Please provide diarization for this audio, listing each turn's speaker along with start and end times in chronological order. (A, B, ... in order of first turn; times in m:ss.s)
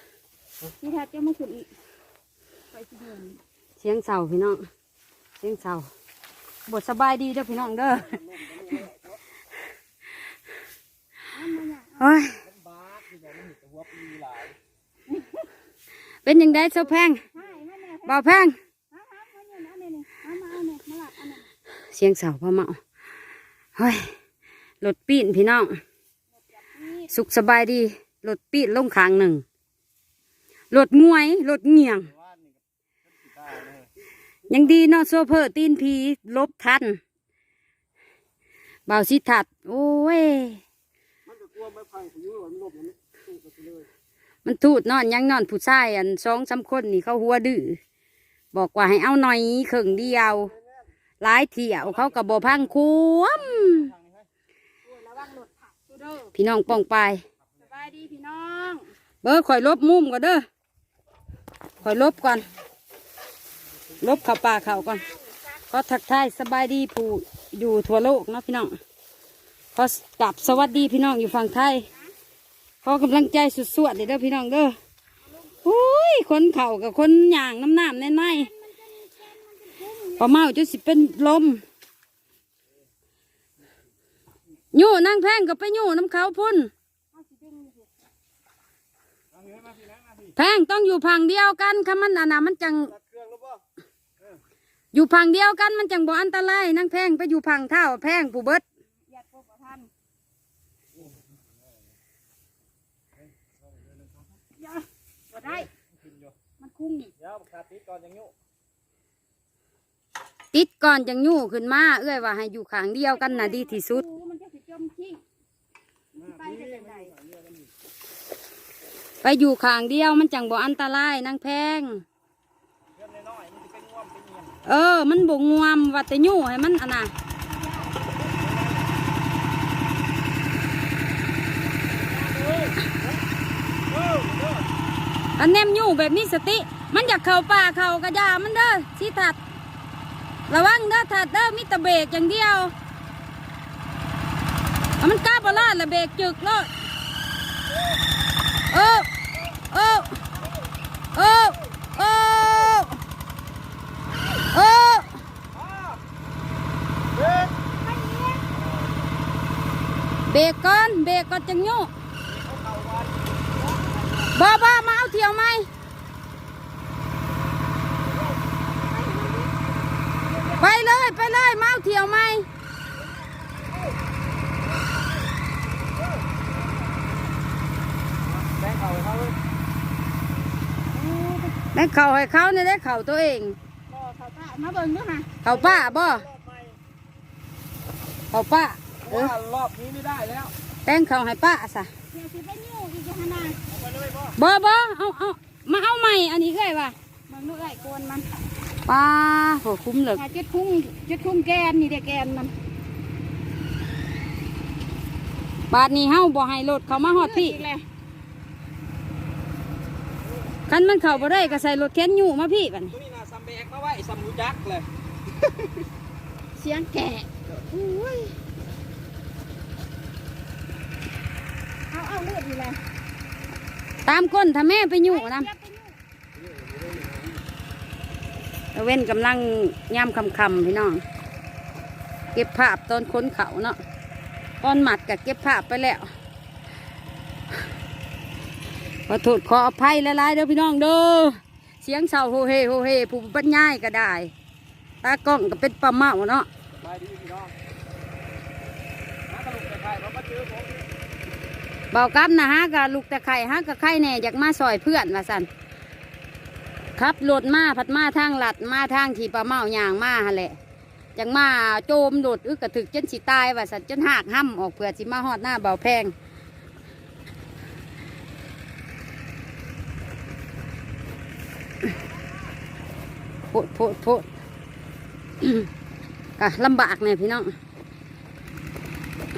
0:00.8-0:01.7 A
0:02.7-0:03.4 A
0:03.8-0:04.6 B
0:05.4-0:05.9 B
0:06.7-0:08.2 B
0:11.3-0:12.1 A
0:12.0-0:12.4 B
0:12.6-0:14.5 C
0:15.1-0:15.5 A
0:16.2-0:17.2 B
0:16.3-0:18.3 A
0:18.0-0:18.6 B
0:18.9-0:21.5 A
0:21.9-0:22.8 B
0:23.8-0:24.1 B
0:24.8-0:25.8 B
0:26.5-0:27.1 A
0:27.1-0:29.4 B
0:30.7-0:32.1 B
0:33.5-0:33.8 C
0:34.5-0:37.0 B
0:38.9-0:40.6 B
0:41.3-0:42.9 C
0:44.4-0:47.8 B
0:48.5-0:50.5 B
0:51.2-0:53.9 B
0:54.8-0:56.3 A
0:56.4-0:57.2 B
0:57.6-0:58.9 A
0:59.2-1:00.4 B
1:01.8-1:02.5 B
1:04.0-1:05.0 B
1:04.7-1:05.4 A
1:05.7-1:08.7 B
1:09.8-1:11.8 B
1:12.8-1:14.8 B
1:15.6-1:18.5 B
1:18.1-1:20.3 A
1:20.2-1:21.6 B
1:24.7-1:26.7 B
1:27.1-1:27.9 A
1:30.4-1:32.9 B
1:33.1-1:33.6 C
1:34.9-1:38.6 B
1:39.1-1:39.9 A
1:44.6-1:45.7 A
1:46.6-1:47.1 A
1:47.2-1:48.3 C
1:50.5-1:54.0 B
1:53.1-1:55.2 A
1:56.1-1:57.2 A
1:59.2-2:02.0 B
2:03.0-2:04.6 C
2:04.6-2:07.1 B
2:07.4-2:08.0 A
2:12.2-2:12.8 C
2:13.9-2:14.6 C
2:15.4-2:19.4 B
2:20.5-2:22.7 B
2:25.0-2:26.7 B
2:28.7-2:29.1 B
2:29.7-2:30.2 B
2:31.2-2:33.0 B
2:34.5-2:35.2 B
2:35.6-2:36.0 C
2:37.7-2:38.5 A
2:40.3-2:41.9 B
2:42.3-2:43.2 C
2:44.3-2:45.7 B
2:48.8-2:49.6 A
2:50.2-2:50.7 A
2:50.6-2:52.5 B
2:58.5-2:59.3 C
3:00.9-3:01.5 A
3:01.7-3:03.6 B
3:03.9-3:05.4 A
3:05.4-3:06.3 B
3:06.4-3:06.7 C
3:08.3-3:09.4 B
3:09.1-3:10.5 C
3:10.9-3:11.9 B
3:12.1-3:13.6 A
3:13.9-3:14.3 C
3:14.4-3:17.0 B
3:17.3-3:18.3 A
3:18.9-3:20.2 B
3:20.1-3:22.5 A
3:25.7-3:27.6 B
3:26.9-3:27.9 A
3:30.7-3:33.0 B
3:33.0-3:34.9 C
3:35.4-3:35.7 A
3:36.6-3:38.3 A
3:41.9-3:42.8 A
3:44.0-3:45.5 B
3:45.0-3:46.0 A
3:48.7-3:51.0 B
3:52.3-3:53.8 B
3:54.6-3:56.1 B
3:59.1-4:04.3 B
4:05.0-4:06.5 B
4:06.8-4:07.5 C
4:09.3-4:10.8 C
4:11.9-4:15.5 B
4:17.0-4:20.6 B
4:21.2-4:26.1 B
4:33.5-4:34.3 B
4:35.4-4:35.7 B
4:36.4-4:37.5 B